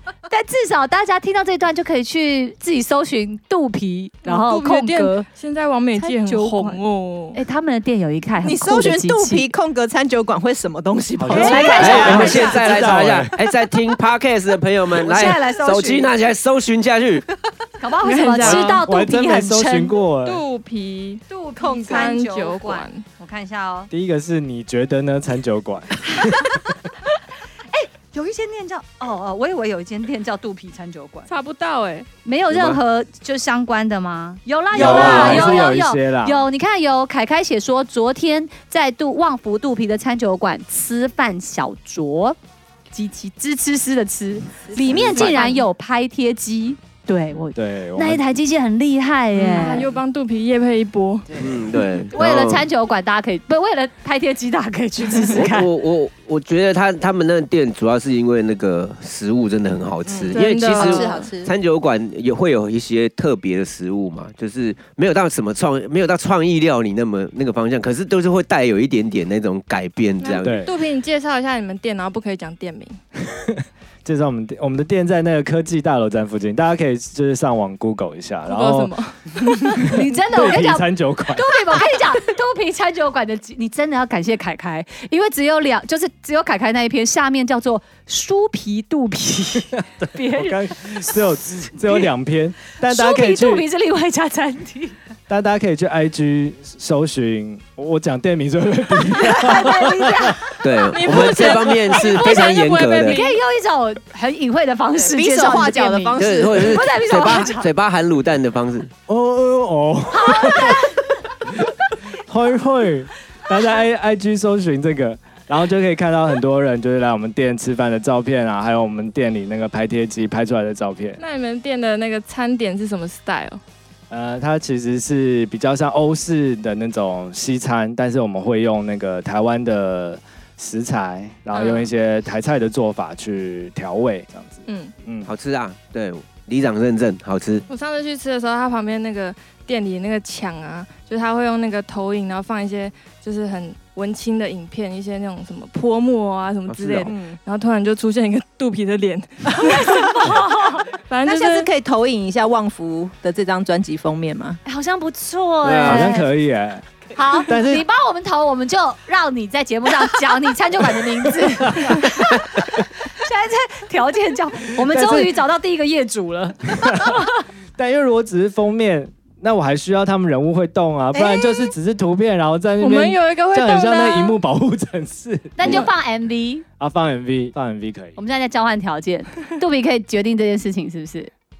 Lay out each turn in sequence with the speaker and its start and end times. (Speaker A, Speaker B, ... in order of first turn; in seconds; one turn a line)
Speaker A: 0.3-5.3
Speaker B: 4.2-7.4
Speaker A: 6.0-6.8
Speaker A: 7.3-9.5
Speaker C: 8.4-12.5
Speaker D: 11.2-13.3
Speaker A: 11.3-12.6
Speaker B: 11.6-11.9
Speaker E: 11.7-17.2
Speaker A: 15.0-16.1
Speaker A: 17.8-20.0
Speaker B: 18.0-18.8
Speaker D: 18.4-20.4
Speaker B: 20.2-23.0
Speaker A: 21.3-23.9
Speaker D: 23.9-26.6
Speaker A: 26.1-26.5
Speaker A: 27.7-31.3
Speaker B: 31.3-32.1
Speaker A: 32.2-42.4
Speaker E: 32.5-32.8
Speaker C: 34.7-35.7
Speaker D: 34.7-36.5
Speaker A: 42.9-49.9
Speaker C: 44.7-45.6
Speaker E: 45.0-45.4
Speaker B: 45.2-45.6
Speaker D: 47.5-48.2
Speaker B: 49.3-51.3
Speaker C: 49.6-49.9
Speaker C: 51.3-51.6
Speaker E: 51.4-52.7
Speaker A: 52.1-55.7
Speaker E: 55.3-70.7
Speaker C: 60.1-61.5
Speaker B: 60.3-61.3
Speaker B: 70.2-73.0
Speaker D: 70.4-70.7
Speaker D: 73.3-78.9
Speaker B: 78.5-79.9
Speaker D: 79.6-81.7
Speaker A: 79.8-91.3
Speaker D: 89.8-93.7
Speaker A: 92.8-95.0
Speaker D: 95.3-100.4
Speaker A: 99.2-100.5
Speaker E: 100.6-103.2
Speaker B: 100.8-103.4
Speaker A: 103.1-107.7
Speaker C: 105.0-106.8
Speaker E: 106.2-108.9
Speaker D: 109.1-111.7
Speaker A: 110.1-111.1
Speaker D: 112.2-121.2
Speaker B: 121.2-123.6
Speaker D: 124.1-135.3
Speaker B: 131.5-131.9
Speaker B: 134.7-134.9
Speaker E: 135.2-137.7
Speaker B: 137.7-151.7
Speaker E: 146.7-147.1
Speaker C: 147.1-147.4
Speaker A: 149.6-150.9
Speaker C: 151.3-154.6
Speaker A: 154.7-156.3
Speaker E: 155.6-156.2
Speaker D: 155.8-156.9
Speaker A: 157.2-167.4
Speaker D: 157.4-157.8
Speaker D: 161.7-161.9
Speaker D: 164.8-165.3
Speaker D: 166.8-167.2
Speaker D: 167.8-175.8
Speaker C: 171.2-171.7
Speaker B: 172.8-174.4
Speaker A: 175.6-176.7
Speaker D: 176.8-178.2
Speaker A: 178.2-181.3